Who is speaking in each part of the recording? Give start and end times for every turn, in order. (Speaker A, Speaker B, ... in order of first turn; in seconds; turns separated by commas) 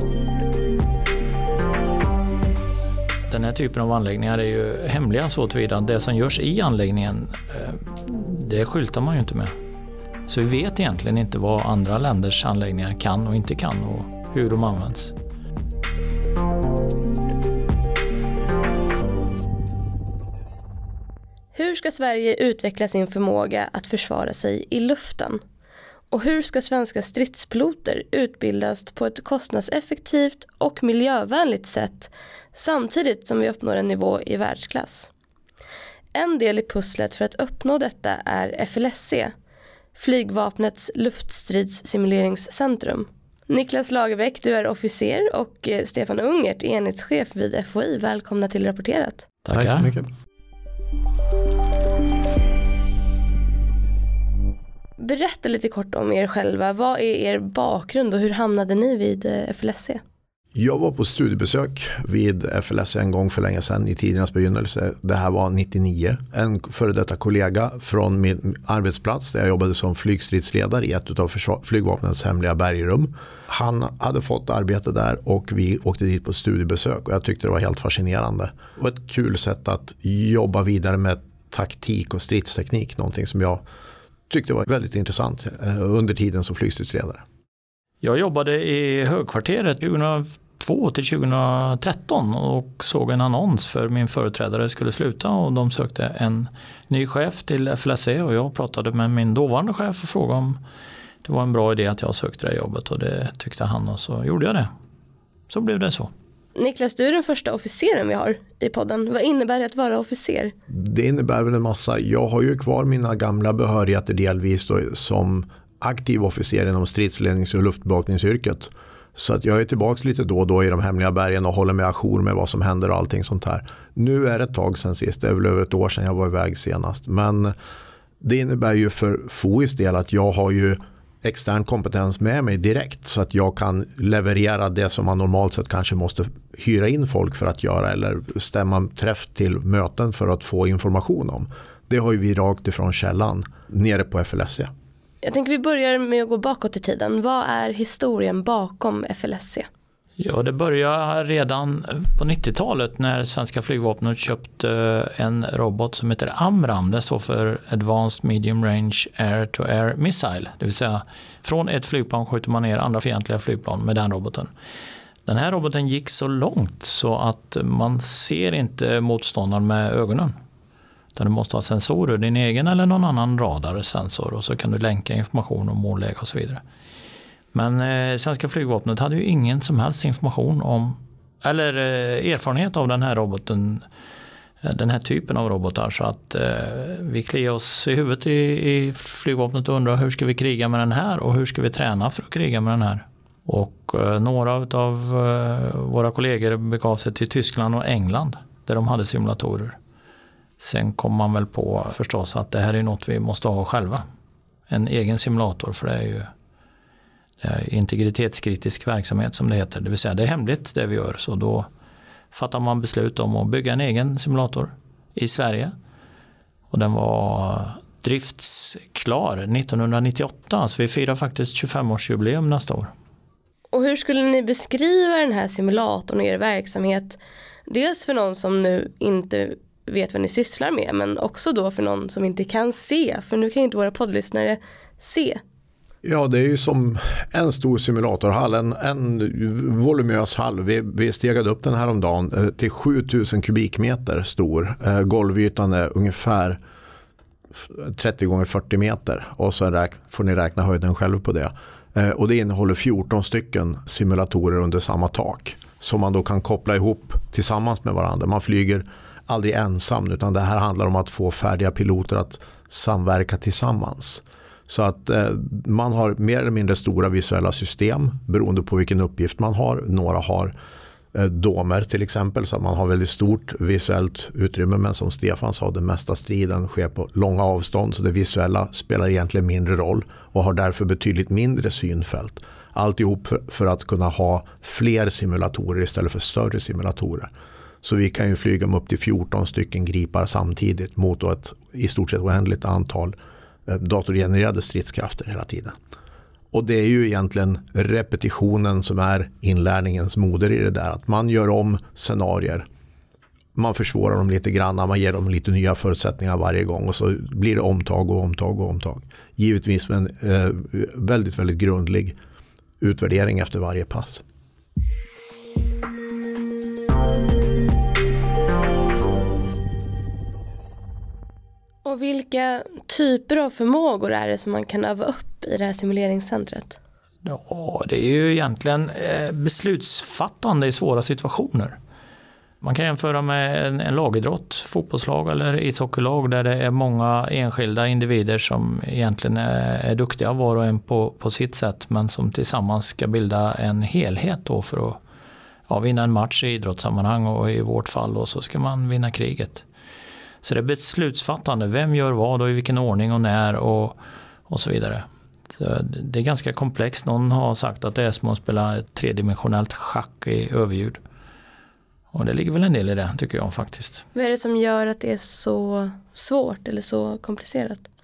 Speaker A: 3.3-9.5, Speaker A: 10.3-15.2, Speaker B: 21.5-25.4, Speaker B: 26.1-35.1, Speaker B: 36.1-39.3, Speaker B: 40.0-49.3, Speaker A: 49.4-49.9, Speaker C: 49.5-50.1, Speaker B: 55.0-60.0, Speaker C: 60.5-83.6, Speaker C: 84.3-87.2, Speaker A: 88.0-100.6, Speaker A: 101.2-104.7, Speaker A: 105.5-106.1, Speaker B: 106.5-110.5, Speaker C: 110.7-127.5, Speaker C: 128.2-144.7, Speaker B: 145.2-149.7, Speaker A: 150.2-164.5, Speaker A: 165.2-170.3, Speaker A: 171.1-176.6, Speaker A: 177.5-183.8, Speaker A: 184.6-199.8, Speaker A: 200.6-204.0, Speaker A: 204.7-206.3, Speaker A: 207.4-211.7, Speaker A: 212.3-215.7, Speaker A: 216.7-222.9, Speaker B: 223.7-235.4, Speaker C: 236.0-246.6, Speaker C: 247.5-270.5, Speaker C: 271.1-287.3, Speaker C: 287.8-293.1, Speaker C: 293.7-295.7, Speaker C: 296.5-302.6, Speaker C: 303.5-312.1, Speaker C: 312.8-314.2, Speaker B: 321.8-326.8, Speaker A: 327.2-331.8, Speaker A: 332.6-345.0, Speaker A: 345.7-349.6, Speaker A: 350.4-355.0, Speaker A: 355.6-361.0, Speaker A: 362.1-364.0, Speaker B: 364.1-367.8